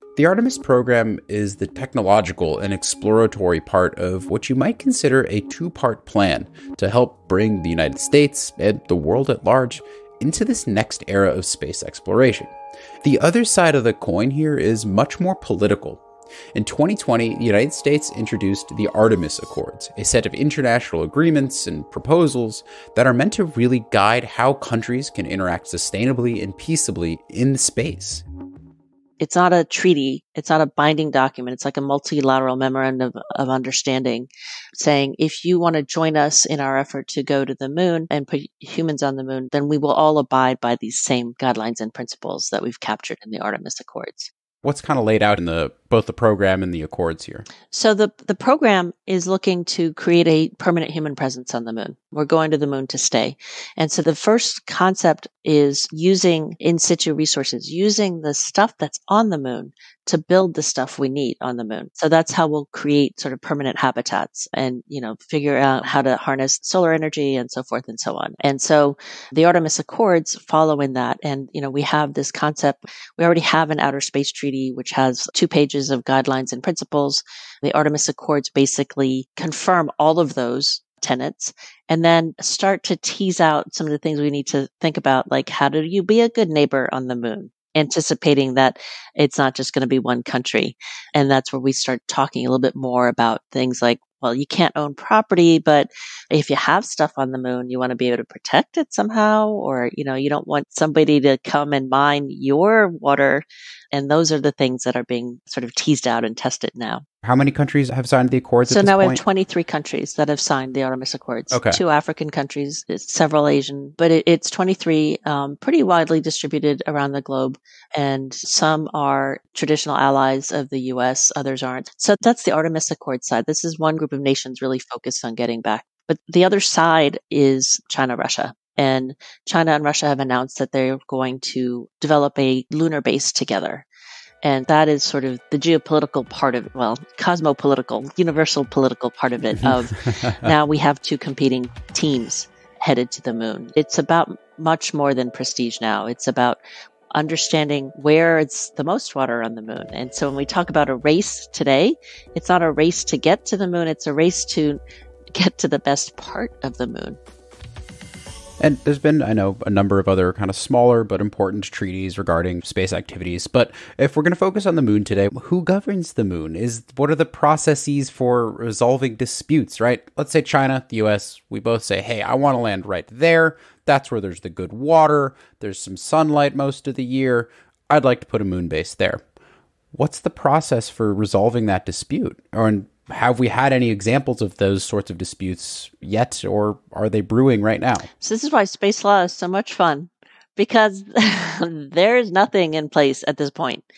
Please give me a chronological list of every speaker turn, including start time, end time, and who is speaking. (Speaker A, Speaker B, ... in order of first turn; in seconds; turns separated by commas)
Speaker A: 0.2-16.0, Speaker A: 16.6-28.2, Speaker B: 29.2-44.3, Speaker A: 44.6-47.5, Speaker B: 47.7-107.0, Speaker A: 107.2-109.2, Speaker B: 108.7-133.9, Speaker A: 111.5-111.8, Speaker B: 134.4-146.6, Speaker A: 139.6-140.5, Speaker B: 147.1-154.8, Speaker B: 155.3-157.2, Speaker A: 158.6-179.2, Speaker A: 179.9-188.1, Speaker B: 188.2-193.8